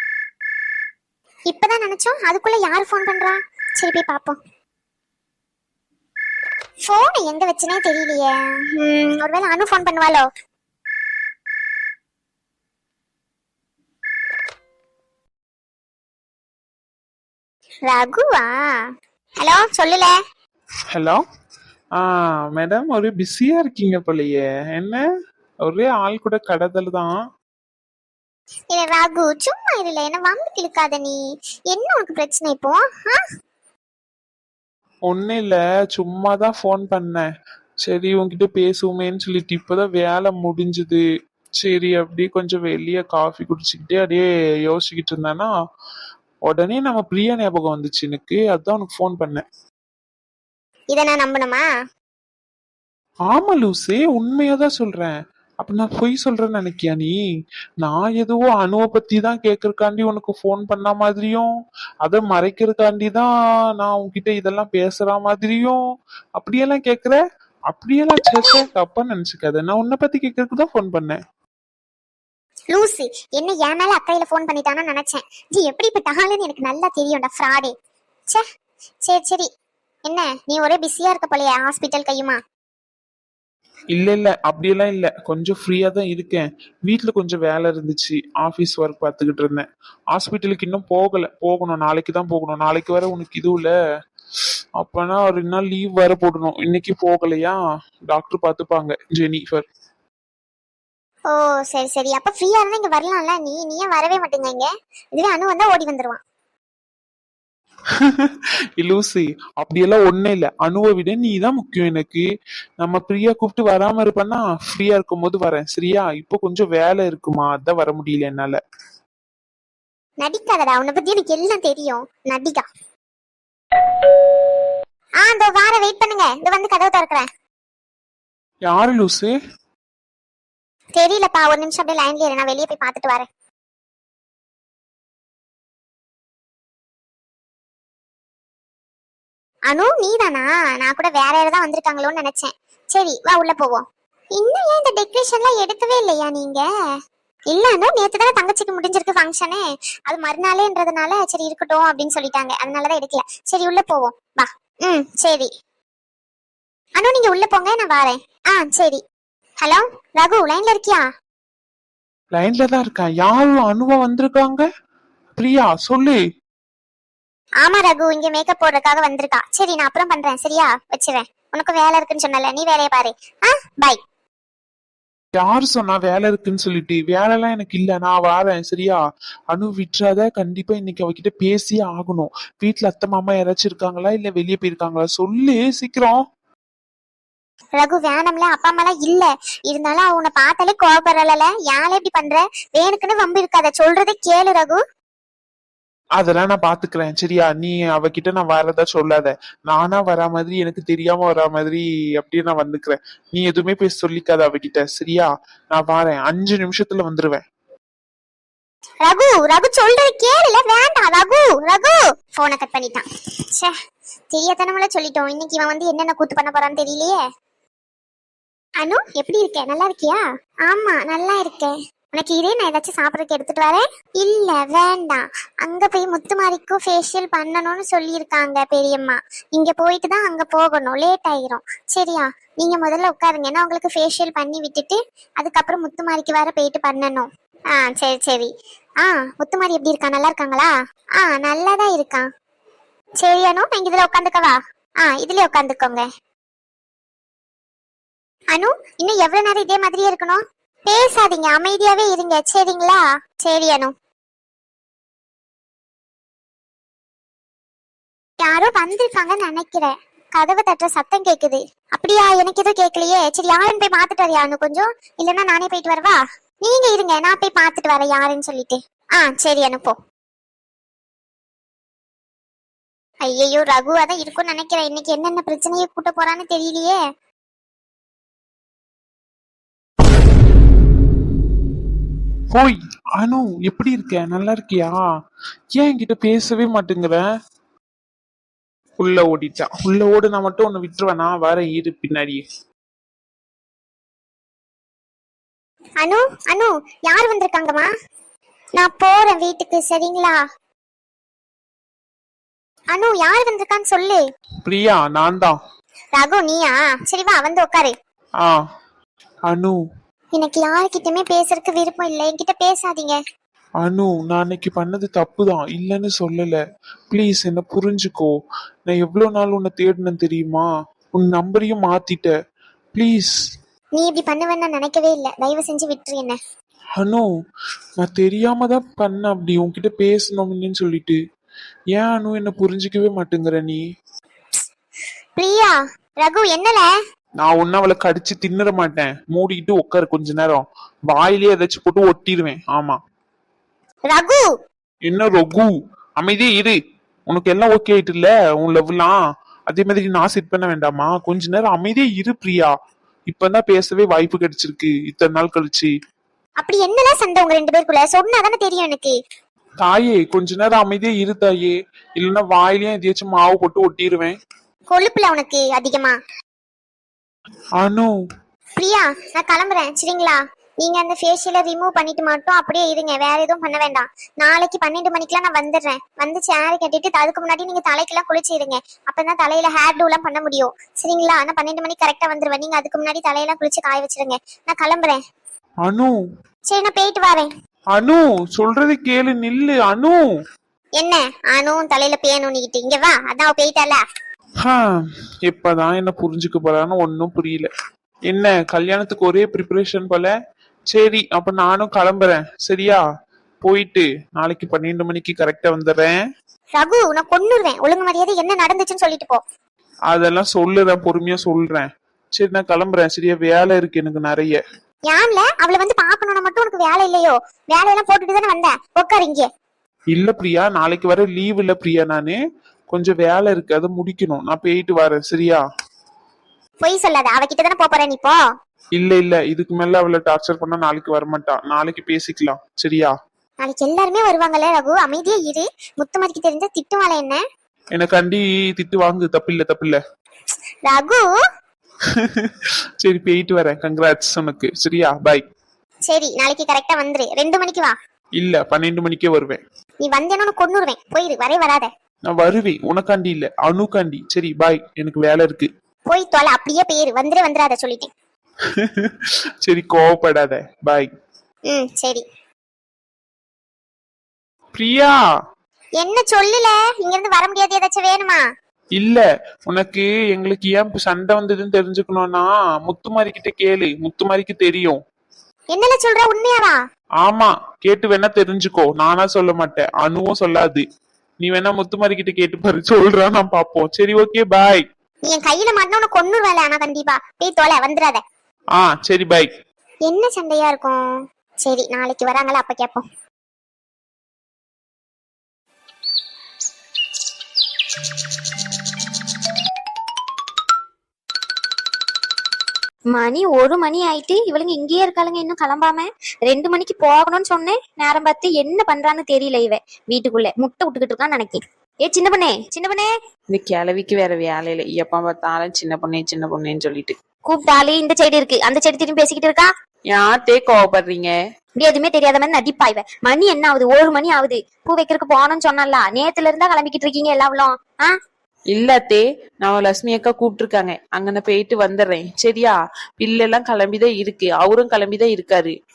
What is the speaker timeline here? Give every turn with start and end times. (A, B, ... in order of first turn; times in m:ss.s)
0:01.5-0:04.4 A
0:06.8-0:10.2 A
0:17.8-0:18.5 A
0:19.4-0:20.1 A
0:20.9-0:21.2 B
0:22.0-0:25.0 B
0:25.6-0:27.1 B
0:28.7-0:33.2 A
0:35.1-0:37.2 B
0:37.8-0:41.0 B
0:41.6-0:45.5 B
0:46.5-0:49.4 B
0:50.9-0:51.6 A
0:53.3-0:57.1 B
0:57.8-1:01.5 B
1:02.0-1:03.3 B
1:03.8-1:05.8 B
1:06.4-1:07.2 B
1:07.7-1:11.2 B
1:12.7-1:17.7 A
1:19.1-1:19.4 A
1:20.1-1:22.4 A
1:23.9-1:33.7 B
1:34.8-1:37.6 B
1:38.1-1:39.6 B
1:41.3-1:46.2 A
1:48.0-1:52.2 B
1:52.8-1:58.6 B
2:00.2-2:02.6 A
2:05.2-2:07.2 A
2:08.7-2:09.3 B
2:11.0-2:13.2 A
2:19.7-2:23.8 A
2:24.4-2:26.6 A
2:27.5-2:35.5 A
2:37.0-2:39.0 A
2:39.6-2:41.0 A
2:42.3-2:44.6 B
2:45.4-2:46.2 B
2:47.6-2:54.0 A
2:55.4-2:59.0 B
2:59.5-3:06.2 B
3:07.8-3:14.8 A
3:16.2-3:27.4 B
3:29.0-3:33.0 A
3:34.3-3:37.2 A
3:38.8-3:58.5 A
3:59.0-4:02.2 A
4:03.2-4:06.0 A
4:08.5-4:13.9 A
4:18.4-4:29.9 A
4:33.3-4:37.0 A
4:42.5-4:45.0 B
4:45.8-4:47.2 B
4:49.0-4:52.4 B
4:56.0-4:57.9 A
4:58.8-5:00.4 A
5:02.9-5:04.2 A
5:04.6-5:05.6 B
5:06.1-5:07.9 A
5:09.5-5:09.8 B
5:10.3-5:13.2 A
5:13.8-5:16.6 B
5:17.1-5:18.3 B
5:18.9-5:22.3 B
5:22.9-5:23.3 B
5:24.0-5:26.4 A
5:27.0-5:27.2 B
5:28.0-5:31.2 B
5:31.9-5:33.8 B
5:35.4-5:36.8 A
5:37.4-5:43.0 B
5:44.1-5:44.4 A
5:45.1-5:46.8 B
5:47.3-5:49.2 B
5:49.7-5:52.7 B
5:53.3-5:55.9 B
5:56.6-5:59.1 A
5:59.8-6:04.3 B
6:04.9-6:06.2 A
6:07.8-6:08.1 B
6:08.8-6:25.2 A
6:25.8-6:26.1 B
6:26.7-6:27.5 A
6:27.9-6:30.2 B
6:31.0-6:34.0 A
6:35.5-6:37.7 B
6:38.3-6:40.3 B
6:40.9-6:43.0 B
6:43.6-6:46.1 B
6:46.7-6:49.4 A
6:50.1-6:54.6 B
6:55.1-6:59.5 A
7:00.1-7:02.4 B
7:02.9-7:05.6 B
7:06.8-7:08.4 A
7:09.0-7:13.1 B
7:13.6-7:17.4 A
7:17.9-7:20.0 B
7:20.8-7:21.3 A
7:22.2-7:25.4 B
7:26.1-7:27.9 A
7:28.4-7:29.6 B
7:30.0-7:31.9 A
7:32.3-7:35.7 B
7:36.1-7:38.1 A
7:38.8-7:39.1 B
7:39.6-7:41.1 B
7:41.7-7:42.2 A
7:44.8-7:45.2 B
7:46.0-7:48.4 A
7:49.0-7:55.0 B
7:55.7-7:56.8 A
7:57.2-8:00.8 B
8:01.4-8:04.8 B
8:05.3-8:08.2 A
8:08.8-8:09.5 B
8:10.1-8:11.0 A
8:11.6-8:13.0 A
8:23.1-8:33.1 C
8:33.5-8:37.1 D
8:37.4-8:39.7 C
8:40.1-8:41.3 D
8:41.8-8:48.1 C
8:48.7-8:55.7 D